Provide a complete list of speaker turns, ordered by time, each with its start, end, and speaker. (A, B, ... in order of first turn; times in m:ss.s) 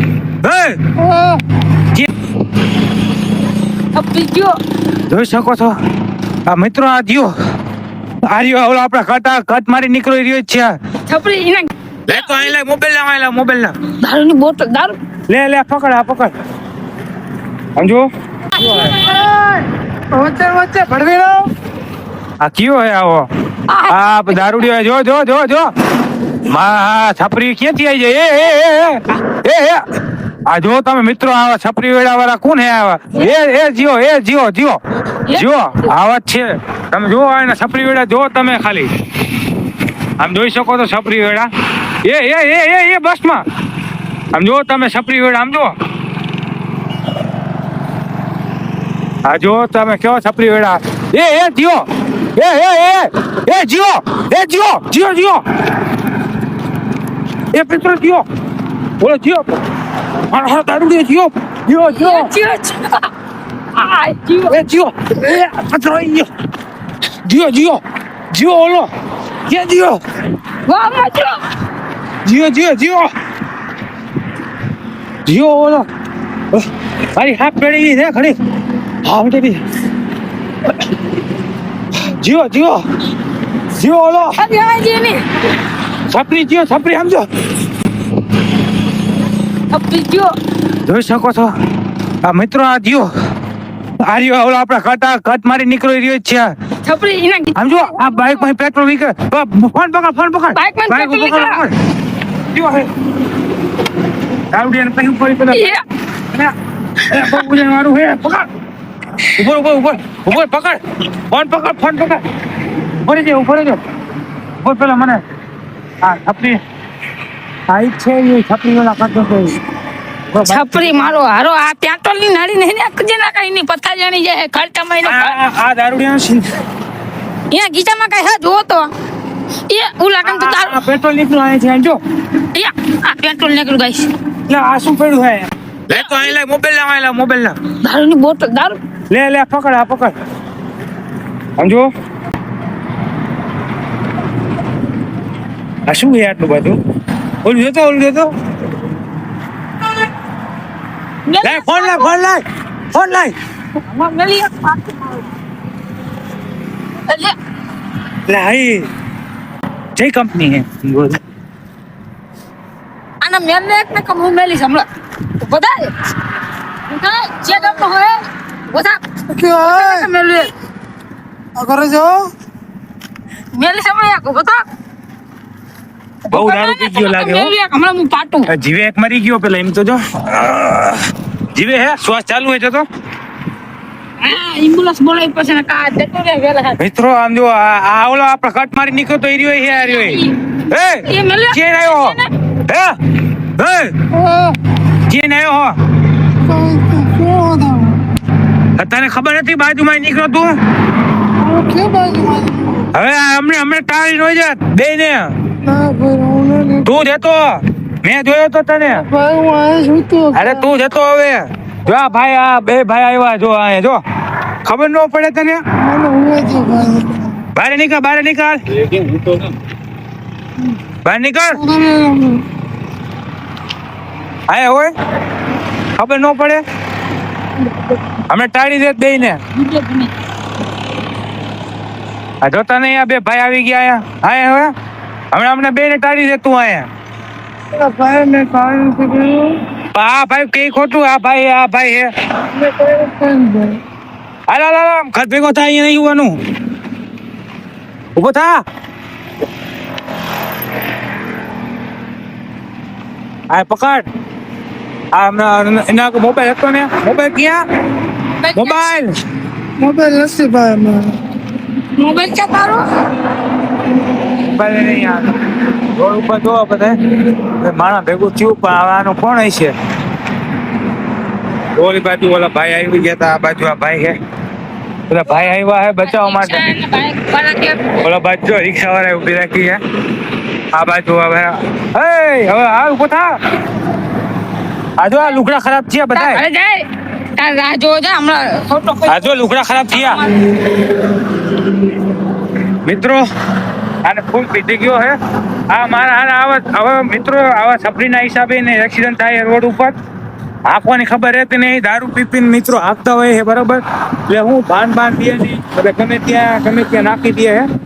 0:00.4-0:00.8 A
0:01.0-0:01.4 B
0:03.9-0:04.6 C
0:05.1-0:05.7 A
0:06.5-0:07.3 A
0:08.3-0:10.7 A
0:11.1-0:12.5 C
0:12.1-0:13.8 A
0:14.0-0:15.0 C
0:15.3-0:16.3 A
0:17.8-0:18.1 A
0:18.5-0:19.0 C
0:18.6-0:18.9 A
0:19.2-0:21.5 B
0:22.4-0:23.3 A
0:23.7-0:24.7 C
0:23.9-0:25.7 A
0:26.5-0:29.8 A
0:30.5-0:34.8 A
0:35.3-0:35.9 C
0:35.3-0:38.9 A
0:40.2-0:41.5 A
0:42.0-0:43.4 A
0:44.3-0:45.7 A
0:49.2-0:51.8 A
0:52.4-0:55.4 A
0:57.5-0:58.2 A
0:59.0-0:59.6 A
1:00.3-1:02.3 A
1:01.9-1:03.1 C
1:03.8-1:04.6 C
1:04.5-1:06.3 A
1:07.2-1:08.9 A
1:09.5-1:10.0 A
1:10.7-1:11.4 C
1:12.2-1:13.1 A
1:15.3-1:15.9 A
1:16.5-1:18.4 A
1:19.0-1:19.6 A
1:21.9-1:22.8 A
1:23.8-1:24.4 A
1:24.4-1:25.2 C
1:26.1-1:27.3 A
1:29.7-1:30.3 C
1:30.8-1:31.5 A
1:32.2-1:33.1 A
1:34.1-1:36.5 A
1:36.8-1:38.4 C
1:37.6-1:41.7 A
1:40.6-1:41.6 C
1:42.5-1:42.9 A
1:44.5-1:45.7 A
1:45.5-1:45.8 C
1:47.0-1:48.5 A
1:49.4-1:50.8 A
1:51.3-1:52.2 A
1:53.0-1:53.8 A
1:54.6-1:55.2 A
1:56.0-1:56.6 A
1:57.7-1:59.6 A
2:00.3-2:01.1 A
2:00.4-2:05.4 C
2:05.0-2:06.5 A
2:07.5-2:08.9 C
2:09.7-2:10.8 C
2:10.2-2:12.0 A
2:12.5-2:14.1 C
2:14.5-2:17.6 A
2:15.9-2:16.3 C
2:17.8-2:18.8 C
2:19.1-2:20.2 A
2:21.6-2:21.9 A
2:25.9-2:26.8 A
2:27.4-2:28.3 A
2:31.3-2:32.1 C
2:31.4-2:33.3 A
2:33.8-2:35.3 C
2:37.1-2:37.3 C
2:38.3-2:38.9 A
2:40.0-2:41.2 A
2:43.2-2:44.8 C
2:45.4-2:45.9 C
2:46.9-2:49.0 C
2:49.3-2:50.1 B
2:49.6-2:50.5 C
2:51.6-2:52.3 B
2:53.5-2:54.6 C
2:56.3-2:57.5 A
2:56.3-2:58.5 C
2:58.5-3:02.8 A
3:04.2-3:06.8 C
3:06.8-3:13.0 A
3:09.7-3:10.4 C
3:11.0-3:12.3 C
3:13.6-3:13.9 A
3:14.1-3:14.6 B
3:15.1-3:15.8 A
3:16.4-3:18.0 B
3:18.8-3:20.5 A
3:21.4-3:22.9 B
3:22.9-3:25.3 A
3:25.6-3:26.9 B
3:26.8-3:29.0 A
3:28.8-3:30.7 B
3:30.3-3:34.0 A
3:34.6-3:35.6 A
3:35.8-3:37.4 B
3:37.6-3:39.4 A
3:41.0-3:41.6 A
3:41.6-3:42.4 B
3:44.5-3:44.9 A
3:46.0-3:46.6 A
3:48.3-3:49.4 A
3:49.6-3:50.1 C
3:52.4-3:54.7 A
3:55.3-3:56.9 A
3:57.7-3:59.6 B
3:59.9-4:02.1 A
4:02.5-4:03.8 B
4:04.5-4:06.4 A
4:08.2-4:08.6 A
4:13.5-4:14.1 A
4:15.1-4:17.6 A
4:18.4-4:18.9 C
4:18.6-4:19.1 A
4:19.8-4:21.2 B
4:22.0-4:22.8 C
4:24.4-4:25.4 A
4:26.0-4:29.7 A
4:31.8-4:34.2 A
4:35.1-4:36.6 A
4:36.0-4:37.9 C
4:38.0-4:39.8 A
4:40.7-4:43.3 A
4:45.0-4:46.4 A
4:46.1-4:46.8 C
4:47.4-4:50.4 C
4:49.1-4:50.2 A
4:52.8-4:53.2 A
4:54.0-4:55.2 A
4:55.7-4:59.9 A
5:00.7-5:07.6 A